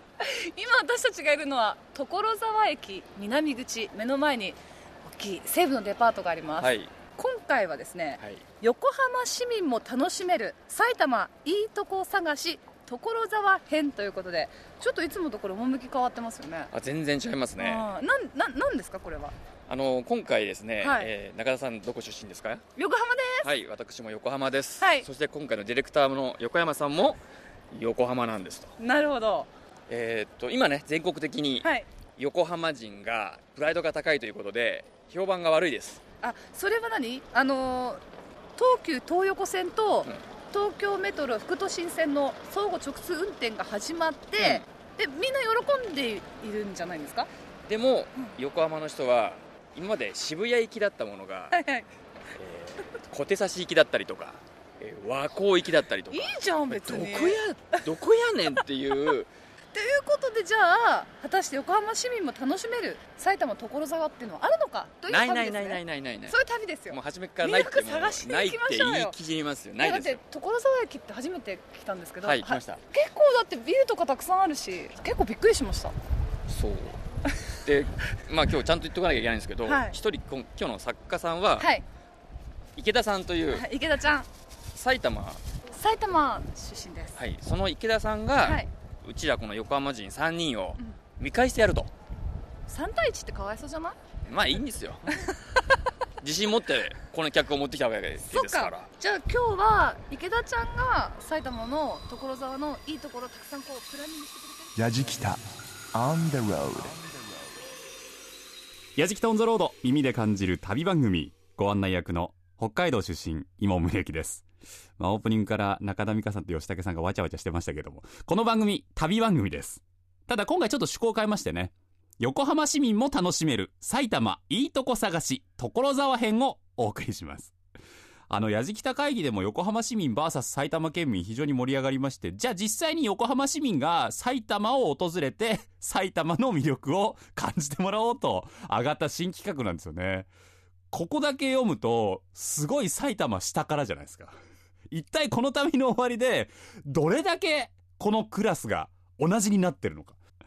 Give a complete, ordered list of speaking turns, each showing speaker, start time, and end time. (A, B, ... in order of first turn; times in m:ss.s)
0:00.2-0:16.7 A
0:06.6-0:06.9 B
0:16.7-0:17.9 B
0:17.6-0:19.3 A
0:19.7-0:22.6 B
0:20.8-0:21.1 A
0:22.8-0:23.5 A
0:23.4-0:27.2 B
0:24.8-0:25.1 A
0:27.7-0:28.8 B
0:28.8-0:29.5 A
0:29.9-0:36.0 B
0:36.2-0:38.0 A
0:38.6-0:47.3 A
0:44.4-0:44.6 B
0:47.7-0:51.6 B
0:51.5-0:51.9 A
0:52.4-0:59.3 B
0:56.1-0:57.8 A
0:59.7-1:09.1 A
1:05.1-1:06.4 B
1:06.9-1:10.2 B
1:09.8-1:15.9 A
1:12.2-1:12.8 B
1:16.5-1:17.0 B
1:17.6-1:21.7 B
1:19.7-1:19.9 A
1:21.6-1:21.8 A
1:22.8-1:23.7 B
1:23.5-1:24.3 A
1:24.7-1:25.4 B
1:25.7-1:27.2 A
1:27.2-1:31.9 B
1:28.4-1:28.7 A
1:32.7-1:34.0 A
1:34.2-1:35.1 B
1:36.2-1:38.9 B
1:38.2-1:44.8 A
1:44.8-1:47.1 C
1:49.0-1:54.4 D
1:55.0-2:07.5 D
2:08.3-2:20.3 D
2:20.9-2:24.4 D
2:24.9-2:30.2 D